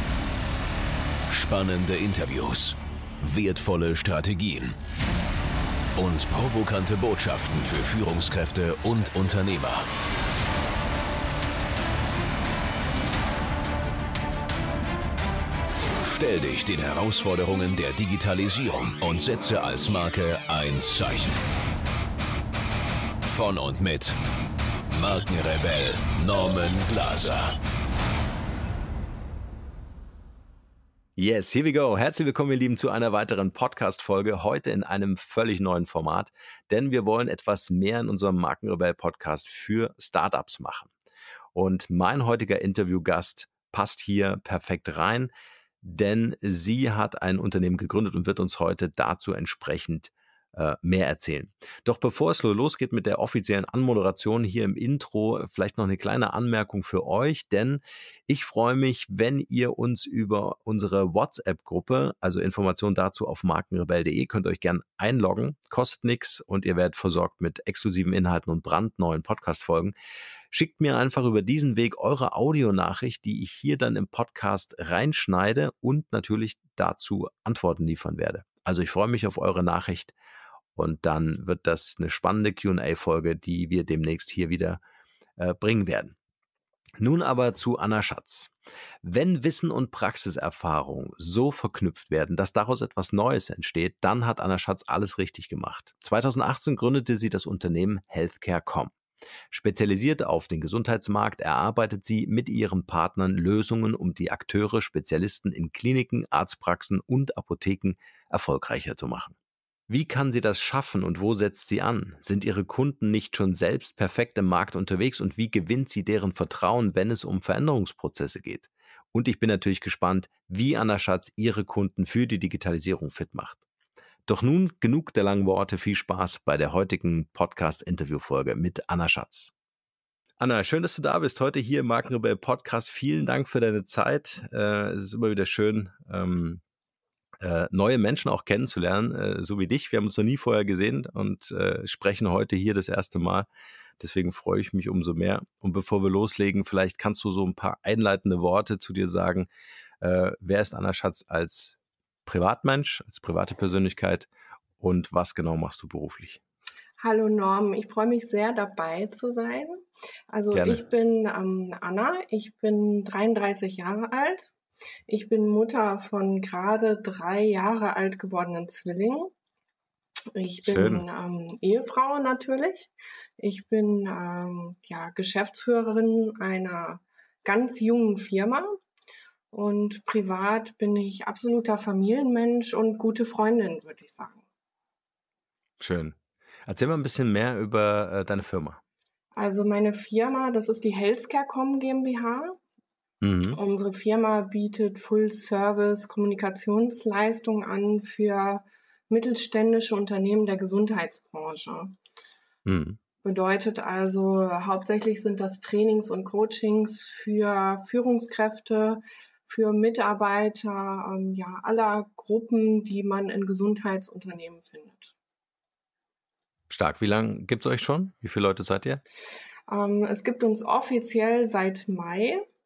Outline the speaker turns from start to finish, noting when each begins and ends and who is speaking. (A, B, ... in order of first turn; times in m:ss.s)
0:01.3-0:04.7 A
0:06.0-0:09.9 A
0:16.0-0:21.4 A
0:23.2-0:24.1 A
0:24.9-0:27.6 A
0:31.2-0:40.9 B
0:41.5-0:45.3 B
0:45.8-1:09.9 B
1:10.5-1:20.1 B
1:20.7-1:24.8 B
1:25.4-1:26.2 B
1:27.0-1:38.9 B
1:39.5-1:49.4 B
1:49.9-2:03.6 B
2:04.3-2:09.5 B
2:10.4-2:16.6 B
2:17.4-2:23.5 B
2:24.0-2:29.5 B
2:30.0-2:34.3 B
2:34.8-2:36.4 B
2:37.0-2:39.8 C
2:40.3-2:44.5 C
2:40.5-2:40.8 B
2:45.1-2:49.3 C
2:50.3-2:58.8 C
2:50.6-2:51.0 B
2:59.5-3:04.4 C
3:05.8-3:08.8 B
3:09.4-3:12.6 C
3:13.2-3:13.6 B
3:13.5-3:21.9 C
3:22.6-3:23.0 B
3:23.2-3:35.1 C
3:36.7-3:39.0 B
3:39.7-3:42.4 C